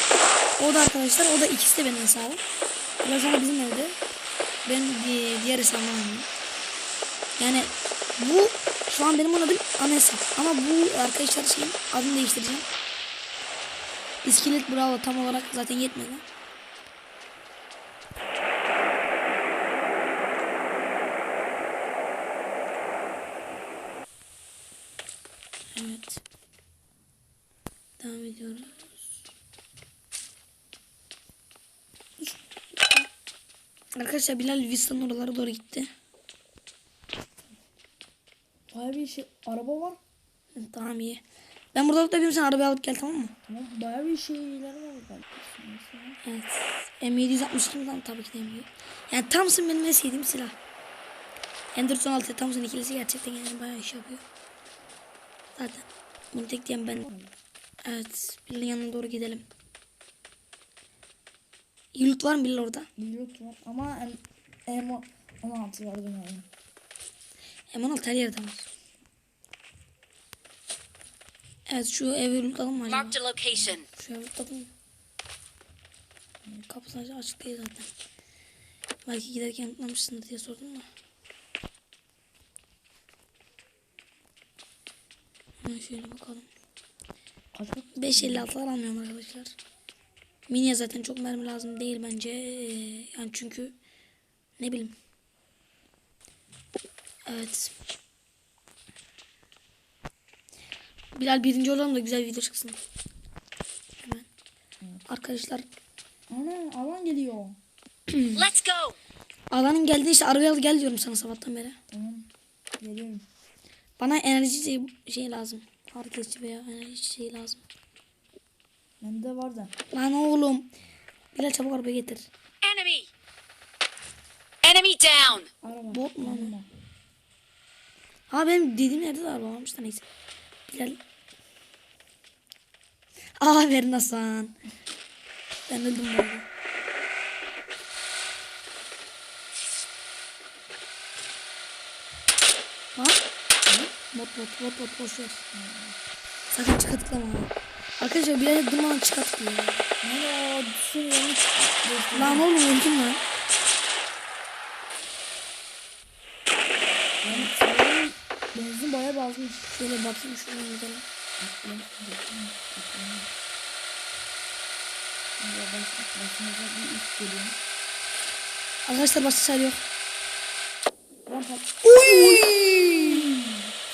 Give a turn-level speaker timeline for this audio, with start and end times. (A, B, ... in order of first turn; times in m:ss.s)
0:00.6-0:02.4 A
0:03.0-0:04.0 A
0:04.6-0:06.3 A
0:07.4-0:12.7 A
0:14.2-0:16.2 A
0:25.7-0:26.2 A
0:28.0-0:28.9 A
0:32.2-0:33.1 B
0:33.9-0:35.9 A
0:38.7-0:40.0 B
0:40.5-0:41.2 A
0:41.7-0:43.3 A
0:43.5-0:46.2 B
0:46.2-0:50.6 A
0:51.7-0:54.2 A
0:55.6-0:57.0 A
0:57.0-0:57.3 B
0:57.8-0:59.4 A
1:01.9-1:02.9 A
1:03.0-1:06.5 B
1:07.7-1:08.7 A
1:11.7-1:13.2 A
1:12.8-1:13.8 C
1:13.8-1:14.7 A
1:16.6-1:17.9 A
1:19.0-1:20.9 A
1:25.6-1:26.5 A
1:27.5-1:28.5 B
1:28.0-1:29.5 A
1:30.5-1:33.7 A
1:34.6-1:34.9 A
1:37.2-1:37.7 A
1:41.1-1:42.8 A
1:45.1-1:45.7 A
1:46.3-1:47.6 B
1:48.1-1:48.5 A
1:48.3-1:49.0 C
1:49.5-1:51.8 A
1:51.9-1:52.3 B
1:52.8-1:53.2 B
1:54.0-1:57.6 A
1:59.0-1:59.7 B
1:59.9-2:00.7 A
2:01.3-2:02.3 A
2:02.6-2:03.1 C
2:04.6-2:05.5 C
2:05.6-2:06.7 B
2:05.9-2:06.5 A
2:08.3-2:10.0 A
2:10.7-2:11.0 A
2:13.4-2:14.5 A
2:15.7-2:16.4 A
2:23.0-2:23.2 A
2:24.1-2:25.4 A
2:25.5-2:26.0 B
2:26.5-2:29.8 A
2:30.0-2:32.5 B
2:32.1-2:33.2 A
2:37.2-2:39.7 B
2:39.6-2:41.0 A
2:41.4-2:43.3 B
2:45.4-2:47.6 B
2:48.8-2:49.8 A
2:51.2-2:53.7 B
2:51.8-2:53.4 A